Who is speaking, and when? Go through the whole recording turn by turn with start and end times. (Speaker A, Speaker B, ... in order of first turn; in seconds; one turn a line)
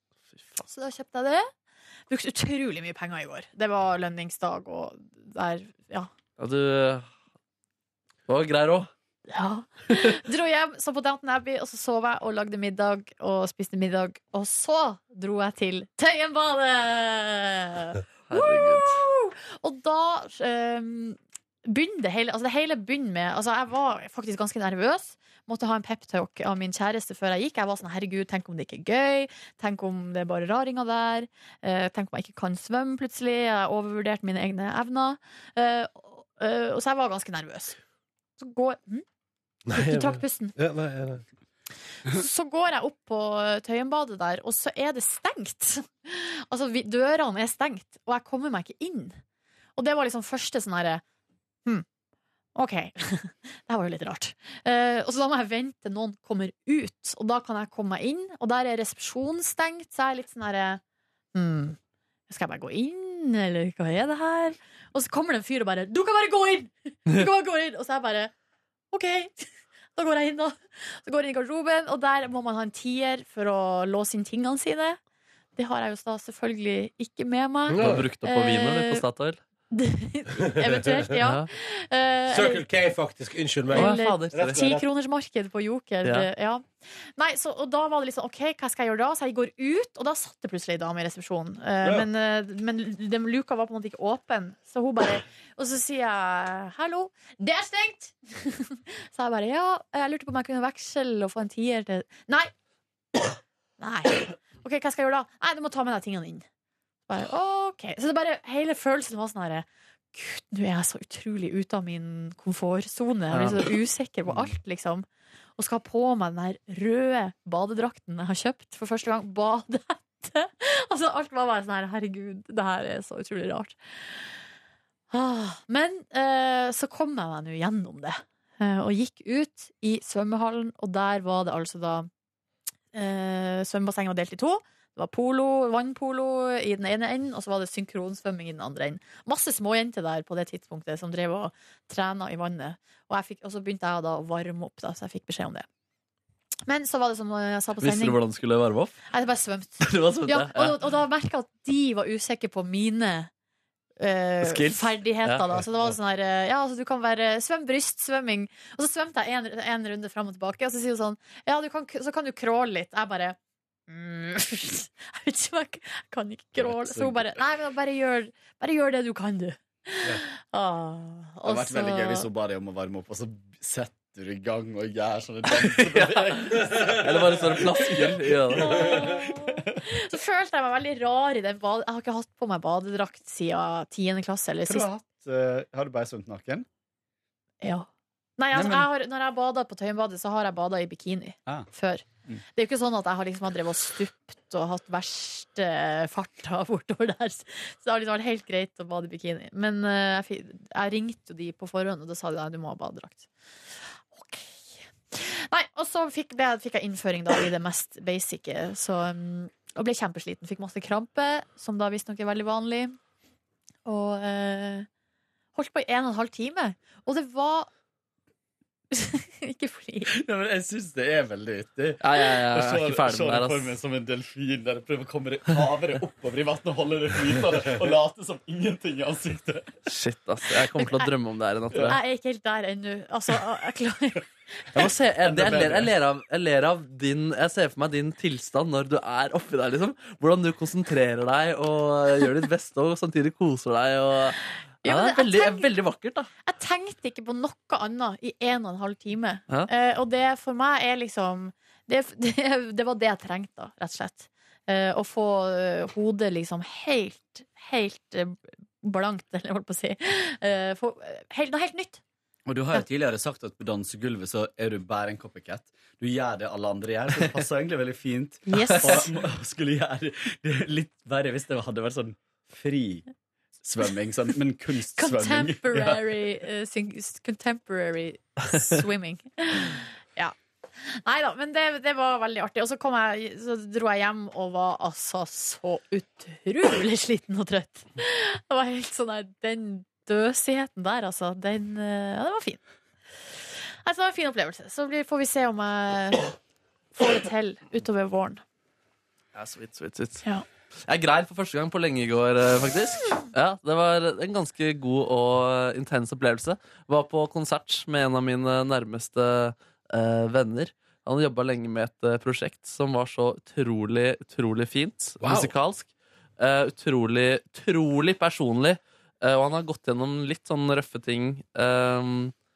Speaker A: 0.6-1.5
Speaker A: 2.1-6.1
Speaker B: 6.4-7.1
Speaker B: 8.3-8.9
Speaker A: 9.3-37.8
Speaker B: 18.3-19.0
Speaker A: 38.4-39.0
Speaker C: 39.6-41.2
Speaker A: 39.7-40.5
Speaker A: 42.0-49.2
Speaker A: 49.8-51.0
Speaker A: 52.5-60.8
Speaker A: 61.3-61.8
Speaker A: 62.3-68.3
Speaker A: 68.9-75.0
Speaker A: 75.5-79.0
Speaker C: 77.7-78.1
Speaker B: 77.8-79.4
Speaker A: 79.7-82.6
Speaker C: 80.6-81.1
Speaker B: 81.2-81.5
Speaker C: 82.3-84.8
Speaker A: 83.7-102.5
Speaker B: 83.7-84.6
Speaker B: 86.0-86.3
Speaker C: 91.8-92.1
Speaker A: 103.8-106.4
Speaker A: 107.1-115.0
Speaker B: 113.3-113.7
Speaker A: 115.6-124.3
Speaker A: 125.1-132.1
Speaker A: 132.9-145.7
Speaker A: 146.7-148.2
Speaker B: 147.8-149.0
Speaker A: 149.1-153.3
Speaker B: 149.8-150.9
Speaker A: 154.0-163.4
Speaker B: 154.4-155.6
Speaker A: 163.9-172.3
Speaker D: 166.6-167.3
Speaker D: 171.4-179.8
Speaker B: 175.6-178.9
Speaker A: 178.5-184.9
Speaker D: 184.7-186.7
Speaker A: 187.6-203.3
Speaker D: 188.5-188.9
Speaker A: 204.1-213.0
Speaker A: 213.8-214.9
Speaker A: 215.6-217.7
Speaker A: 218.9-220.1
Speaker D: 220.1-229.7
Speaker B: 222.0-223.7
Speaker B: 229.9-232.0
Speaker A: 230.7-231.1
Speaker D: 231.7-232.0
Speaker A: 231.8-234.2
Speaker B: 234.7-246.3
Speaker D: 234.8-235.9
Speaker A: 244.8-245.7
Speaker A: 246.4-262.0
Speaker D: 262.5-273.1
Speaker A: 268.5-269.1
Speaker D: 273.6-276.1
Speaker A: 274.9-292.6
Speaker A: 293.8-296.3
Speaker A: 296.9-298.4
Speaker B: 299.3-300.2
Speaker B: 300.9-322.3
Speaker C: 315.2-315.5